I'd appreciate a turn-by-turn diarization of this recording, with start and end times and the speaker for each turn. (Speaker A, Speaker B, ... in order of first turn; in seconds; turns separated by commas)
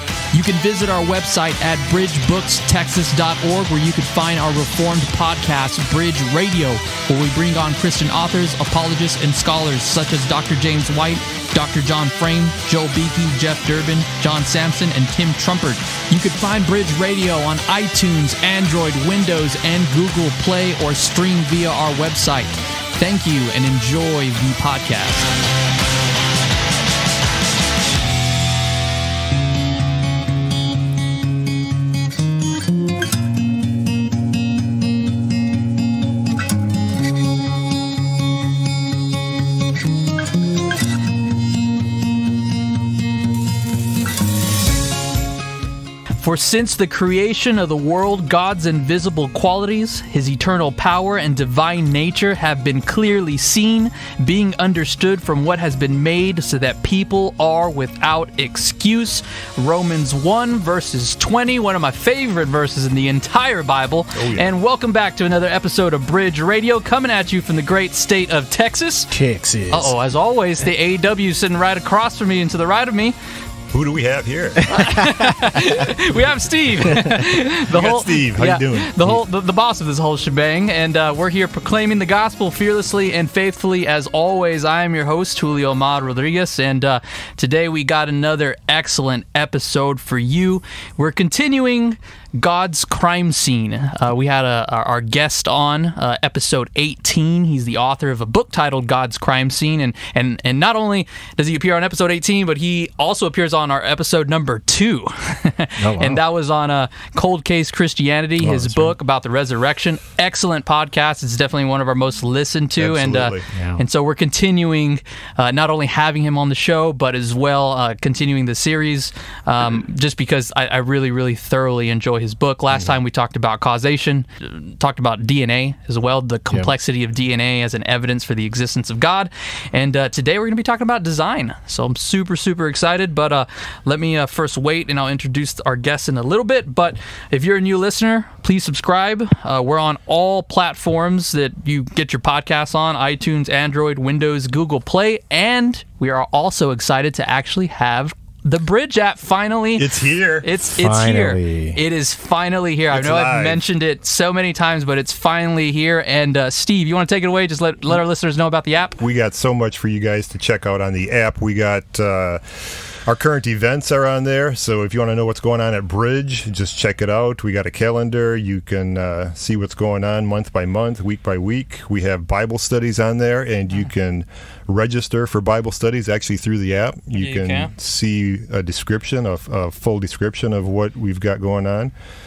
Speaker A: 0.3-25.3, Speaker A: 46.2-69.1, Speaker B: 64.2-64.5, Speaker C: 69.1-70.0, Speaker A: 69.7-73.1, Speaker B: 73.7-75.0, Speaker A: 74.7-149.9, Speaker B: 77.7-79.2, Speaker C: 105.8-106.2, Speaker C: 108.4-109.0, Speaker B: 112.8-113.5, Speaker C: 113.5-113.8, Speaker B: 149.8-150.4, Speaker A: 150.4-159.0, Speaker C: 150.7-151.8, Speaker B: 152.9-153.6, Speaker B: 159.0-181.9, Speaker A: 177.2-177.7